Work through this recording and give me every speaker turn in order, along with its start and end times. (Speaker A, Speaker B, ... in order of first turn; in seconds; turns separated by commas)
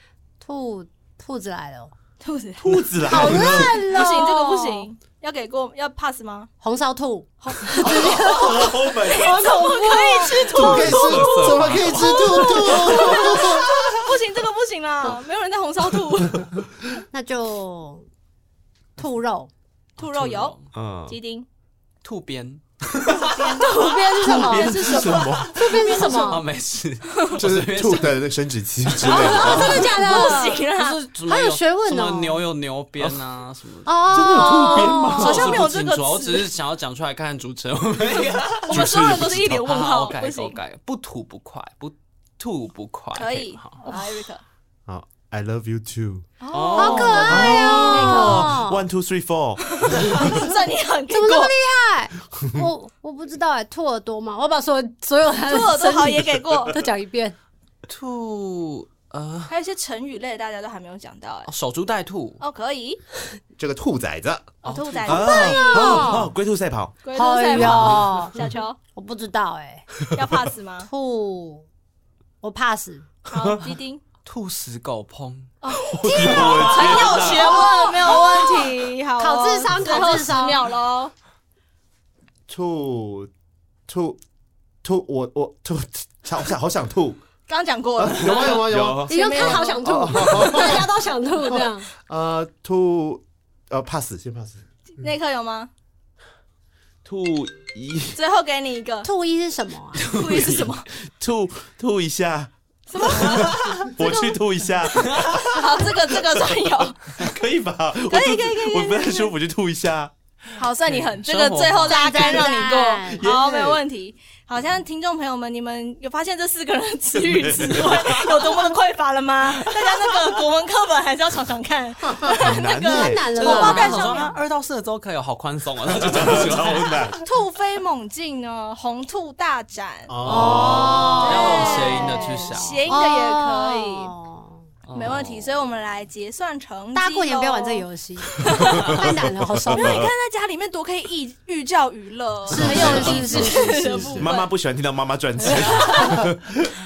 Speaker A: 0.4-1.9, Speaker B: 2.2-6.5, Speaker C: 2.6-3.8, Speaker A: 3.1-4.9, Speaker A: 6.6-10.9, Speaker B: 7.4-16.5, Speaker C: 7.7-9.5, Speaker D: 10.5-13.7, Speaker E: 10.7-13.1, Speaker A: 17.1-18.1, Speaker A: 19.0-19.5, Speaker B: 20.0-21.5, Speaker E: 20.0-20.7, Speaker C: 20.7-21.2, Speaker E: 22.0-23.2, Speaker A: 23.3-26.4, Speaker B: 23.4-25.2, Speaker C: 24.2-25.6, Speaker E: 25.8-28.3, Speaker B: 25.9-26.2, Speaker D: 27.4-29.8, Speaker B: 29.0-31.0, Speaker E: 29.2-33.9, Speaker A: 29.4-30.7, Speaker A: 31.3-32.4, Speaker A: 33.9-35.4, Speaker C: 34.1-35.6, Speaker B: 35.1-36.5, Speaker E: 35.2-43.8, Speaker C: 38.2-39.6, Speaker B: 38.7-40.6, Speaker D: 39.1-39.3, Speaker B: 43.1-44.4, Speaker D: 44.9-46.3, Speaker B: 46.4-48.6, Speaker E: 46.5-47.7, Speaker A: 46.7-48.9, Speaker C: 47.3-50.5, Speaker B: 49.6-51.5, Speaker A: 51.1-57.4, Speaker B: 55.4-56.8, Speaker E: 57.9-59.5, Speaker B: 59.5-61.5, Speaker E: 61.5-62.4, Speaker B: 62.4-63.0, Speaker D: 63.6-64.5, Speaker E: 64.6-65.5, Speaker B: 64.7-66.3, Speaker C: 65.1-67.0, Speaker A: 65.4-66.3, Speaker B: 67.0-68.8, Speaker A: 67.1-68.3, Speaker A: 69.0-69.9, Speaker B: 70.2-70.9, Speaker A: 70.8-71.7, Speaker A: 72.4-73.1, Speaker B: 73.3-74.0, Speaker C: 73.3-73.7, Speaker E: 74.2-75.5, Speaker B: 75.6-81.1, Speaker C: 76.0-77.7, Speaker E: 76.2-78.2, Speaker A: 79.2-80.6, Speaker D: 82.5-83.3, Speaker D: 83.9-84.2, Speaker D: 84.8-87.2, Speaker B: 87.5-90.9, Speaker D: 88.0-90.9, Speaker C: 88.2-89.2, Speaker A: 89.1-91.9, Speaker D: 92.1-94.7, Speaker B: 95.0-95.7, Speaker C: 97.0-98.2, Speaker B: 98.2-99.1, Speaker A: 99.0-100.0, Speaker B: 100.0-100.9, Speaker E: 100.0-100.7, Speaker C: 101.1-110.1, Speaker B: 102.9-104.3, Speaker B: 104.9-107.2, Speaker B: 108.1-109.3, Speaker B: 110.6-124.3, Speaker E: 110.9-112.3, Speaker A: 111.8-113.3, Speaker C: 113.2-113.8, Speaker C: 117.1-118.7, Speaker C: 119.6-120.3, Speaker C: 122.3-123.4, Speaker A: 122.8-124.3, Speaker E: 123.4-127.0, Speaker C: 125.9-127.2, Speaker B: 127.2-130.2, Speaker D: 130.1-131.0, Speaker E: 130.2-132.9, Speaker C: 130.3-131.2, Speaker A: 130.3-134.7, Speaker B: 131.1-134.1, Speaker E: 134.9-135.5, Speaker B: 134.9-137.9, Speaker A: 136.9-140.1, Speaker B: 138.4-144.5, Speaker A: 142.5-144.3, Speaker C: 142.5-143.6, Speaker D: 142.6-144.2, Speaker C: 144.2-146.6, Speaker B: 145.4-146.3